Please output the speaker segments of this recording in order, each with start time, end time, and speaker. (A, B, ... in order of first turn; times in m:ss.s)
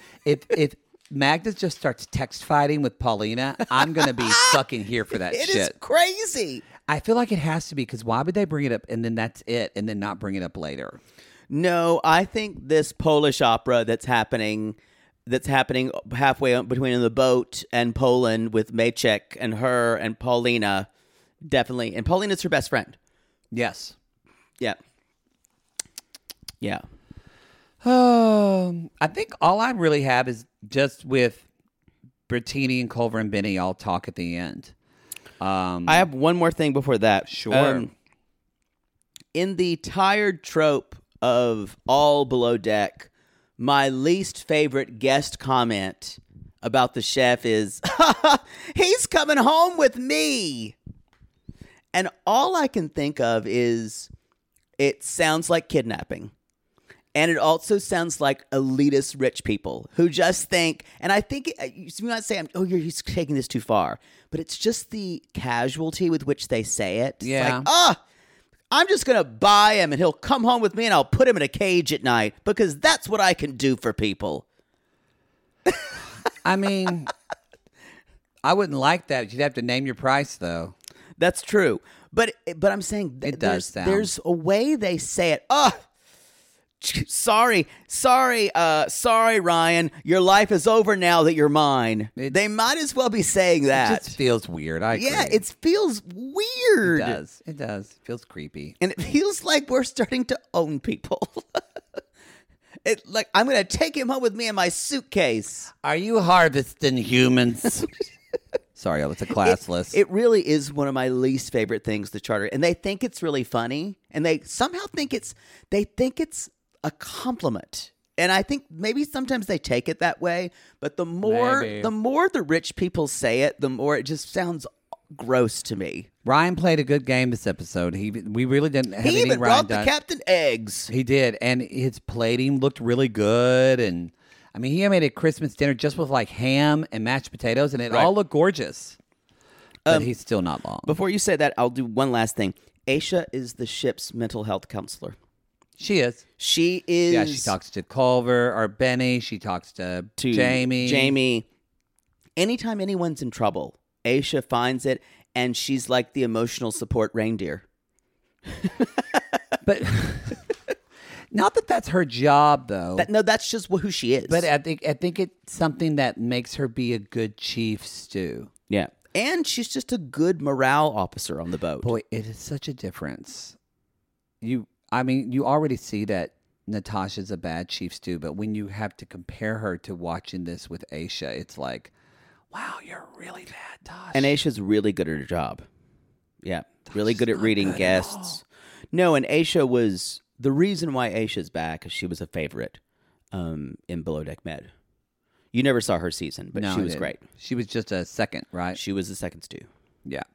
0:00.2-0:05.7 A
0:03.8-0:04.6 B
0:05.1-0:06.6 B
0:06.9-0:11.0 A
0:11.5-0:20.9 B
0:21.4-0:23.0 B
0:23.5-0:23.9 A
0:27.8-0:31.4 A
0:32.3-0:34.7 A
0:35.4-0:36.1 A
0:35.8-0:37.9 B
0:37.2-0:37.9 A
0:39.3-0:50.8 B
0:51.9-0:54.1 B
0:54.8-0:56.3 B
0:57.1-1:08.0 B
1:07.2-1:07.7 A
1:08.7-1:14.4 B
1:16.4-1:17.1 A
1:18.4-1:20.7 A
1:21.2-1:25.8 B
1:23.2-1:24.1 A
1:26.8-1:34.2 B
1:33.7-1:35.4 A
1:34.9-1:37.2 B
1:36.8-1:38.7 A
1:38.8-1:41.6 B
1:42.8-1:45.7 B
1:45.8-1:47.9 A
1:48.8-1:50.0 A
1:49.4-2:06.1 B
2:01.2-2:01.9 A
2:06.2-2:09.9 A
2:09.0-2:10.9 B
2:10.9-2:19.0 A
2:19.9-2:20.9 A
2:20.8-2:25.2 B
2:25.8-2:26.2 A
2:26.4-2:27.5 B
2:27.1-2:31.2 A
2:30.2-2:31.5 B
2:32.4-2:37.6 B
2:38.5-2:39.2 B
2:39.6-2:40.4 A
2:41.3-2:43.1 A
2:43.0-2:44.5 B
2:44.3-2:48.5 A
2:48.7-2:51.9 B
2:51.8-2:53.5 A
2:54.4-3:01.9 A
3:02.5-3:04.3 A
3:04.1-3:05.6 B
3:06.4-3:12.8 B
3:06.9-3:08.4 A
3:13.3-3:14.7 B
3:15.5-3:17.2 B
3:16.5-3:18.8 A
3:18.7-3:19.7 B